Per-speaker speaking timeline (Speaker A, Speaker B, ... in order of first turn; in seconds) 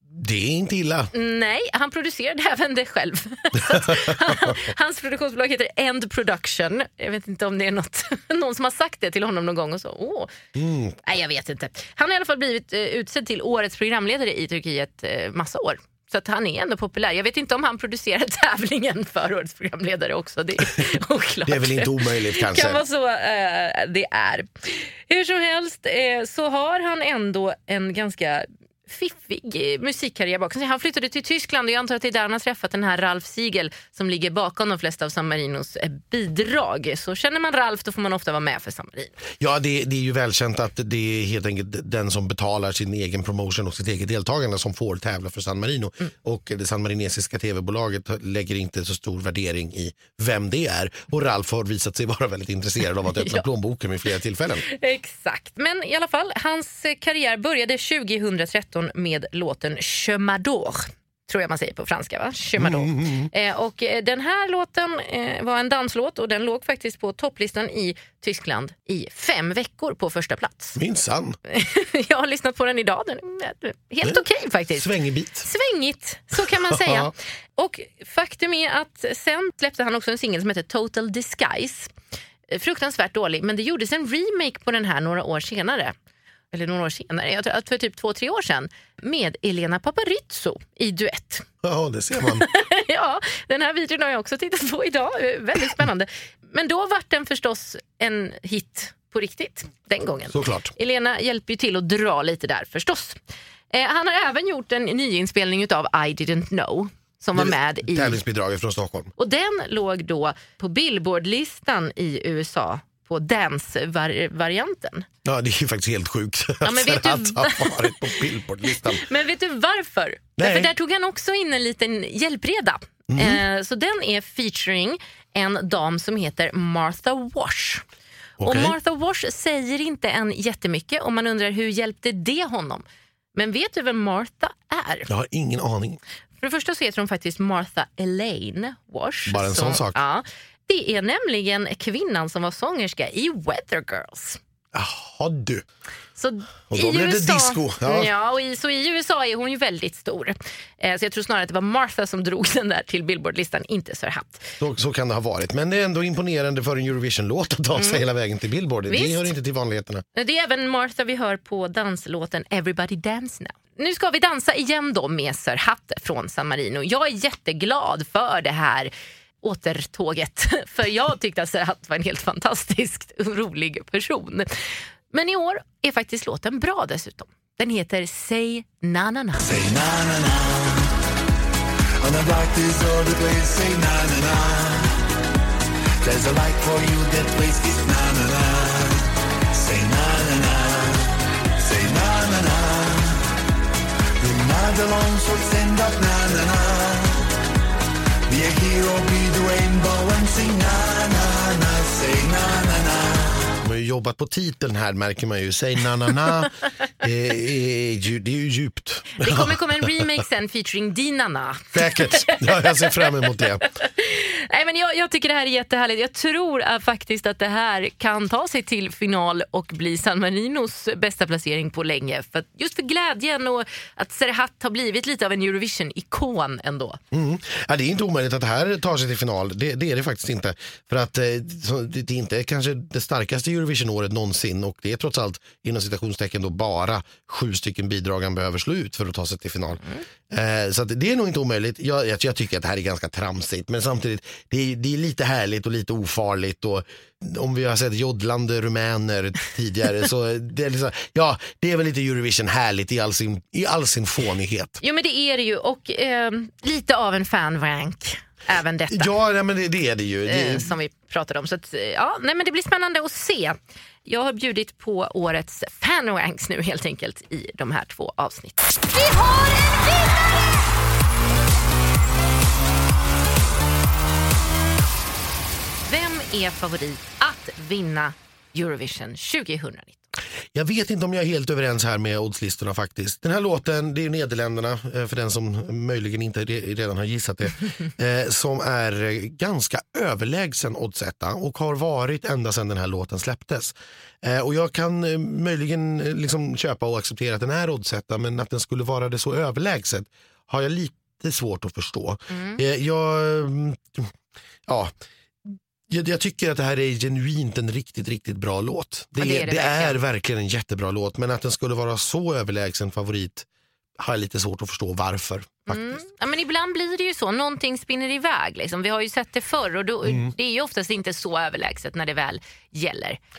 Speaker A: 0.1-1.1, 3.6-4.5, 10.5-11.0, 21.4-22.8, 39.4-54.6, 62.6-63.3, 70.8-71.4, 74.7-75.5, 76.4-77.1, 91.6-92.5, 100.3-100.7, 107.3-109.1, 115.2-119.0, 120.4-120.7, 123.1-123.4, 128.4-128.8, 135.1-136.0, 139.3-140.0, 144.7-145.6, 146.7-148.1, 154.6-160.0, 203.6-210.0, 211.7-213.7, 227.1-254.8, 258.9-260.7, 280.5-304.1, 304.7-304.9, 305.4-313.5, 314.0-316.0
Speaker B: 1.1-10.3, 11.0-39.1, 53.2-53.4, 54.6-70.8, 71.5-74.8, 75.4-81.9, 82.5-85.9, 86.5-91.5, 92.2-103.2, 103.7-108.2, 109.2-115.1, 116.6-118.1, 118.7-127.8, 128.4-132.8, 133.3-135.1, 136.4-144.4, 146.2-154.5, 157.7-158.0, 158.9-159.3, 160.1-168.9, 169.4-179.6, 209.2-227.0, 254.8-259.1, 260.2-269.9, 275.9-280.0, 302.3-302.6, 309.2-310.0, 315.7-323.2
Speaker C: 179.4-180.9, 182.0-185.0, 186.0-193.3, 194.2-197.3, 198.3-203.5